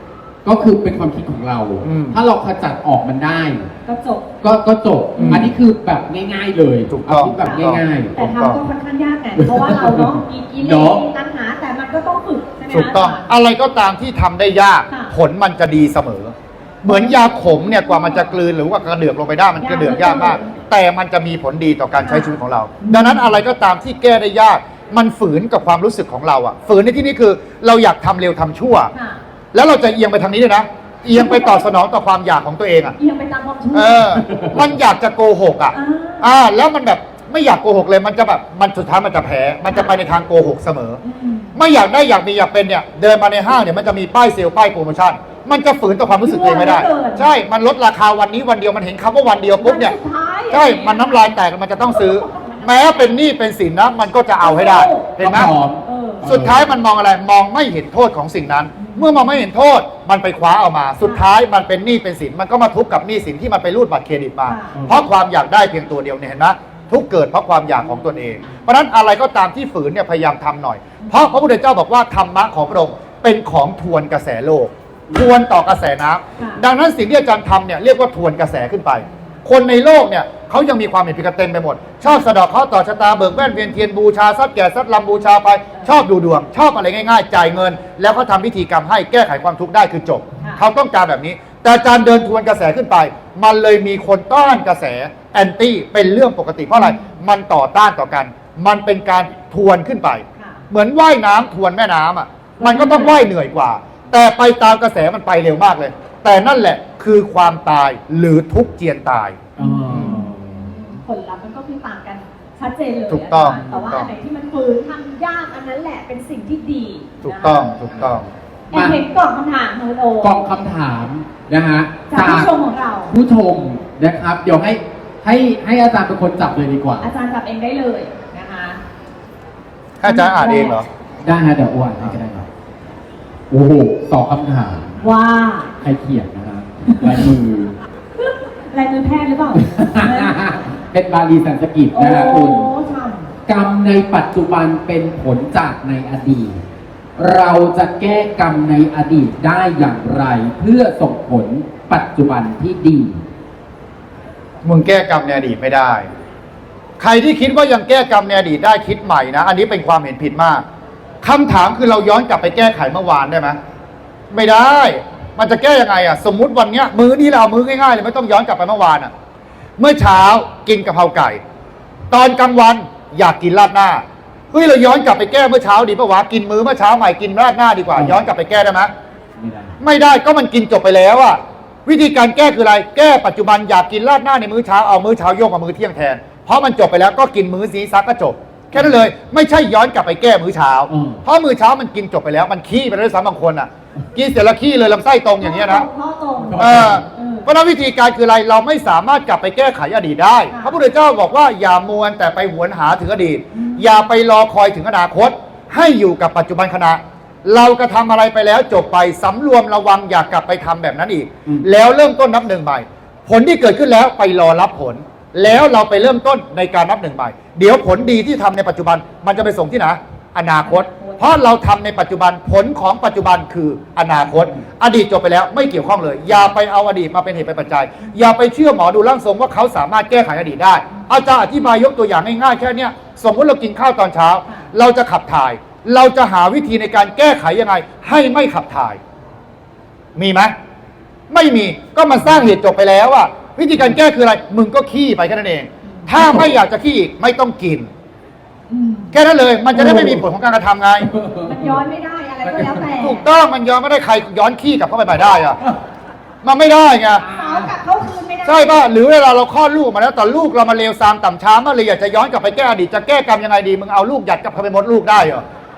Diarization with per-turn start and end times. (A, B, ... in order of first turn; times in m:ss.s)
0:00.4-0:03.7 A
0:01.8-0:02.2 B
0:03.8-0:04.3 C
0:04.4-0:08.2 A
0:05.2-0:05.5 C
0:05.2-0:05.5 B
0:06.9-0:08.6 B
0:07.4-0:13.3 C
0:09.4-0:11.0 A
0:12.7-0:16.3 B
0:14.9-0:15.1 C
0:16.8-0:28.9 B
0:16.8-0:18.4 C
0:19.6-0:20.5 C
0:22.0-0:23.4 C
0:28.9-0:29.2 C
0:29.5-0:32.9 B
0:31.1-0:31.6 C
0:33.0-0:34.2 C
0:33.7-0:41.0 B
0:34.2-0:34.6 A
0:35.7-0:36.3 C
0:39.7-0:40.0 C
0:41.0-0:41.5 C
0:41.5-0:49.9 B
0:46.2-0:47.3 C
0:49.6-0:53.2 C
0:50.5-0:55.5 B
0:54.4-0:55.2 C
0:55.2-0:56.7 A
0:55.8-0:56.3 C
0:56.2-1:50.2 B
0:58.8-0:59.4 C
1:04.4-1:04.8 C
1:04.7-1:05.0 A
1:11.0-1:11.3 C
1:36.7-1:37.1 C
1:40.4-1:40.6 C
1:42.6-1:43.2 C
1:49.6-1:50.8 A
1:49.6-1:57.7 C
1:53.1-1:54.1 B
1:53.4-1:53.8 A
1:57.2-1:58.3 B
1:58.7-2:00.4 C
1:58.7-1:59.0 A
2:00.2-2:02.5 A
2:02.1-2:03.1 C
2:03.1-2:07.1 A
2:07.0-2:08.8 C
2:10.0-2:10.9 B
2:10.0-2:10.8 C
2:11.2-2:12.5 A
2:13.5-2:15.0 A
2:15.0-2:15.7 C
2:15.8-2:17.8 A
2:18.2-2:20.4 C
2:19.5-2:22.7 A
2:21.9-2:23.3 C
2:23.4-2:26.6 A
2:27.2-2:33.2 A
2:34.6-2:36.0 B
2:37.0-2:40.6 B
2:41.2-2:43.6 B
2:44.3-2:49.1 B
2:49.8-2:51.4 B
2:52.1-2:58.9 B
2:57.9-2:58.2 A
2:59.4-2:59.7 A
2:59.8-3:15.9 B
3:10.9-3:11.2 A
3:15.4-3:17.5 C
3:16.4-3:17.0 A
3:16.6-3:59.0 B
3:20.5-3:20.8 C
3:23.5-3:24.0 C
3:40.6-3:41.4 C
3:44.2-3:44.6 A
4:00.2-4:00.5 B
4:01.3-4:07.9 B
4:06.2-4:06.4 A
4:08.7-4:09.1 C
4:09.1-4:11.1 B
4:09.7-4:10.2 A
4:11.0-4:11.8 A
4:11.4-4:13.2 C
4:12.4-4:12.8 A
4:12.9-4:15.6 B
4:16.4-4:17.2 B
4:17.1-4:17.7 A
4:17.3-4:18.8 C
4:18.4-4:25.4 B